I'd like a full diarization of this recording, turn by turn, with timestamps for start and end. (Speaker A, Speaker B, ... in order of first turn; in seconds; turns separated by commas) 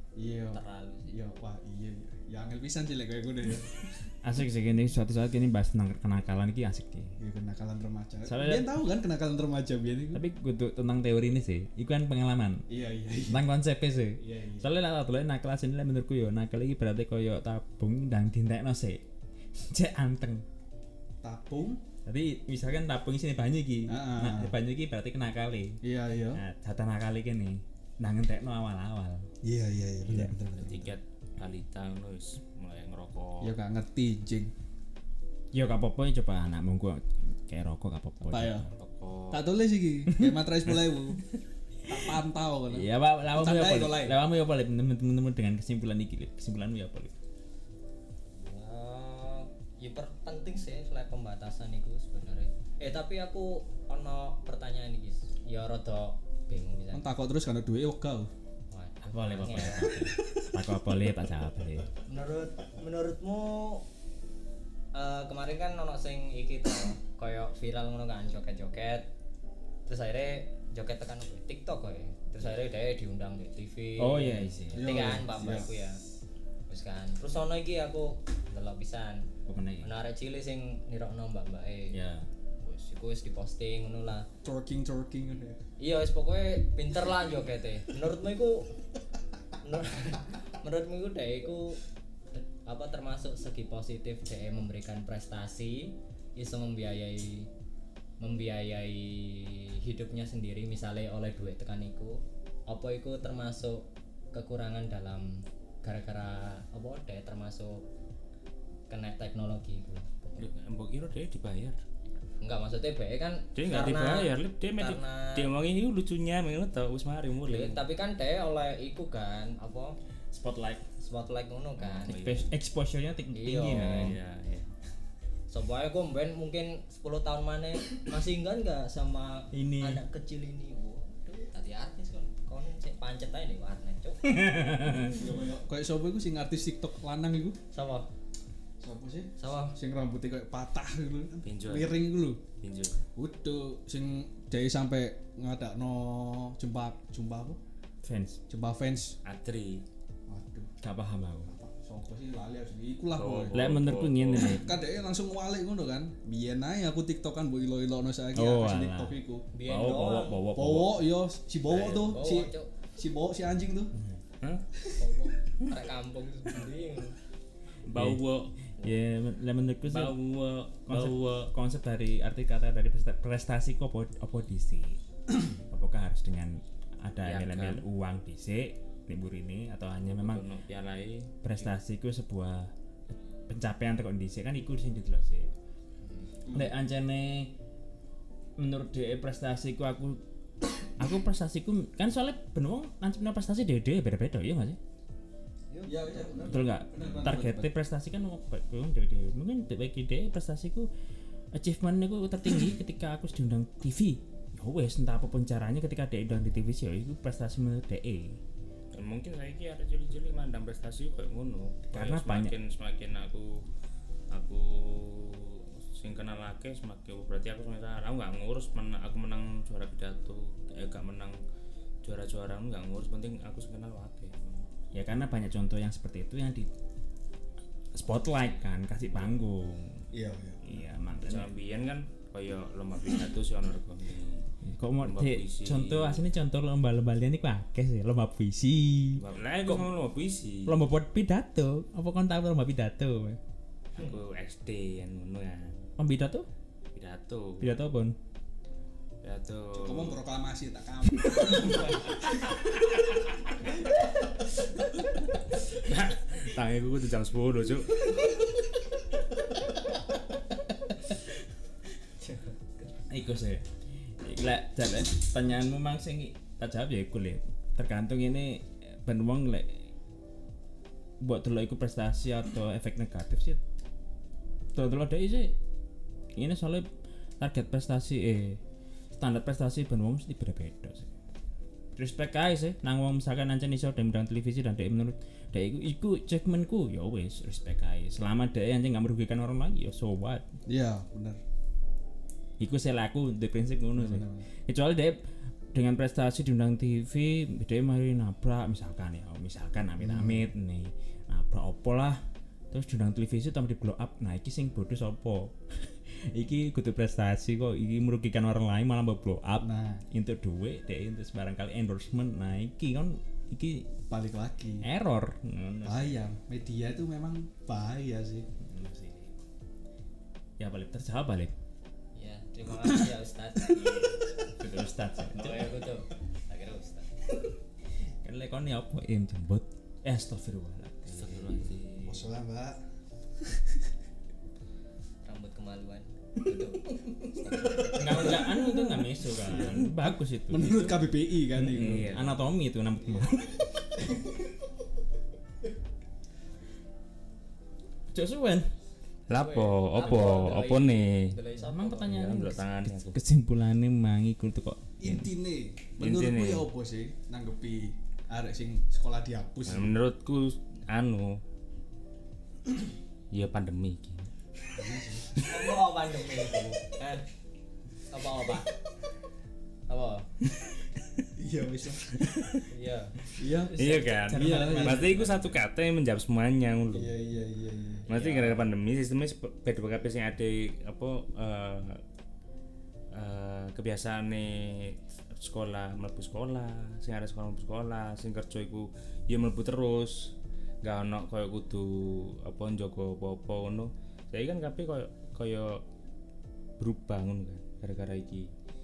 Speaker A: 0.2-4.1, Speaker B: 0.5-1.1, Speaker C: 4.2-7.2, Speaker A: 7.2-10.2, Speaker C: 8.3-8.8, Speaker C: 10.1-12.7, Speaker A: 12.7-13.5, Speaker C: 13.3-19.0, Speaker A: 14.2-14.7, Speaker C: 19.6-20.4, Speaker A: 21.2-21.8, Speaker C: 22.1-25.8, Speaker A: 23.9-24.5, Speaker A: 25.8-26.4, Speaker C: 26.3-29.3, Speaker A: 29.4-31.0, Speaker C: 30.1-30.4, Speaker D: 30.5-33.6, Speaker A: 33.4-34.5, Speaker C: 35.5-38.7, Speaker A: 38.3-38.7, Speaker D: 38.7-39.5, Speaker A: 39.3-41.3, Speaker A: 41.9-44.2, Speaker C: 42.7-47.1, Speaker B: 48.4-57.1, Speaker A: 56.9-58.3, Speaker B: 58.7-60.0, Speaker C: 59.1-61.9, Speaker B: 62.1-63.9, Speaker B: 64.9-69.1, Speaker B: 69.9-76.0, Speaker C: 74.0-75.1, Speaker A: 74.7-75.7, Speaker B: 76.7-79.3, Speaker C: 79.5-79.9, Speaker B: 79.8-82.0, Speaker C: 81.9-82.3, Speaker B: 82.6-84.3, Speaker A: 84.4-85.6, Speaker B: 85.8-88.7, Speaker B: 89.6-91.8, Speaker B: 92.3-97.5, Speaker B: 98.2-107.9, Speaker B: 108.9-110.5, Speaker D: 110.4-111.8, Speaker B: 112.4-115.5, Speaker D: 113.5-117.8, Speaker B: 117.5-120.0, Speaker C: 120.3-120.8, Speaker B: 121.0-122.2, Speaker D: 121.8-122.5, Speaker C: 122.0-124.2, Speaker B: 123.3-124.2, Speaker D: 123.7-124.7, Speaker B: 125.5-134.4, Speaker C: 129.5-130.0, Speaker C: 134.2-135.2, Speaker A: 135.0-137.6, Speaker B: 137.7-138.1, Speaker A: 138.8-142.4, Speaker B: 139.4-139.8, Speaker D: 141.4-142.0, Speaker D: 142.6-143.0, Speaker A: 143.2-147.6, Speaker C: 148.0-148.4, Speaker A: 148.5-149.2, Speaker D: 149.2-149.8, Speaker A: 150.3-150.7, Speaker C: 150.8-151.5, Speaker A: 151.5-153.7, Speaker D: 153.2-154.6, Speaker C: 153.5-154.7, Speaker A: 154.4-159.5, Speaker C: 158.3-161.1, Speaker B: 159.5-160.4, Speaker A: 160.5-163.9, Speaker D: 161.7-162.0, Speaker B: 161.7-162.7, Speaker C: 163.9-164.2, Speaker A: 164.8-165.1, Speaker B: 165.0-167.2, Speaker D: 167.9-168.5, Speaker C: 167.9-168.2, Speaker C: 168.8-170.2, Speaker D: 169.9-171.5, Speaker C: 170.9-180.4, Speaker D: 177.2-177.8, Speaker D: 180.0-181.3, Speaker C: 181.4-185.5, Speaker B: 186.1-186.4, Speaker C: 186.5-187.6, Speaker C: 188.6-190.2, Speaker C: 191.0-194.8, Speaker B: 195.7-196.7, Speaker A: 195.9-197.7, Speaker C: 196.4-200.9, Speaker C: 201.5-208.4, Speaker D: 208.9-213.7, Speaker C: 211.9-212.6, Speaker D: 214.3-221.4, Speaker D: 222.0-224.7, Speaker C: 224.9-226.7, Speaker C: 227.9-230.1, Speaker A: 230.1-230.7, Speaker C: 230.6-231.5, Speaker D: 231.2-234.4, Speaker C: 234.6-239.9, Speaker D: 235.0-236.2, Speaker D: 239.2-240.8, Speaker C: 240.7-243.4, Speaker D: 244.0-245.9, Speaker C: 246.0-246.5, Speaker D: 246.9-247.8, Speaker C: 247.6-248.2, Speaker D: 249.2-250.2, Speaker A: 249.7-252.3, Speaker D: 255.6-258.1, Speaker C: 263.1-263.7, Speaker C: 264.2-269.9, Speaker C: 271.2-273.6, Speaker C: 274.8-275.6, Speaker C: 276.4-276.9, Speaker C: 277.4-278.6, Speaker C: 279.1-281.1, Speaker C: 281.9-290.4, Speaker A: 290.7-291.4, Speaker C: 292.6-295.2, Speaker A: 294.0-294.5, Speaker C: 295.7-313.9, Speaker A: 300.0-300.5, Speaker A: 309.6-310.0, Speaker A: 314.1-314.9, Speaker C: 314.8-316.3, Speaker A: 315.8-318.5, Speaker C: 318.6-319.4, Speaker C: 320.6-321.6, Speaker B: 322.1-324.5, Speaker C: 324.5-325.9, Speaker B: 325.3-327.1, Speaker C: 328.2-331.7, Speaker D: 331.1-332.4, Speaker A: 332.0-332.8, Speaker B: 335.2-338.4, Speaker A: 337.6-342.2, Speaker C: 337.9-343.6, Speaker D: 341.6-342.4, Speaker C: 348.1-348.7, Speaker D: 349.3-351.3, Speaker B: 349.3-352.4, Speaker C: 351.6-355.3, Speaker D: 352.0-353.2, Speaker A: 355.0-360.0, Speaker D: 356.0-356.7, Speaker D: 359.7-361.4, Speaker D: 363.3-364.3, Speaker A: 364.7-365.4, Speaker B: 365.4-367.2, Speaker B: 368.1-368.7, Speaker B: 369.9-370.3, Speaker A: 371.4-372.3, Speaker D: 372.2-372.6, Speaker B: 372.7-373.2, Speaker A: 373.4-375.1, Speaker D: 373.8-377.1, Speaker C: 374.2-375.6, Speaker A: 376.9-378.1, Speaker D: 378.1-382.0, Speaker B: 378.1-378.7, Speaker D: 383.1-395.8, Speaker D: 396.8-398.5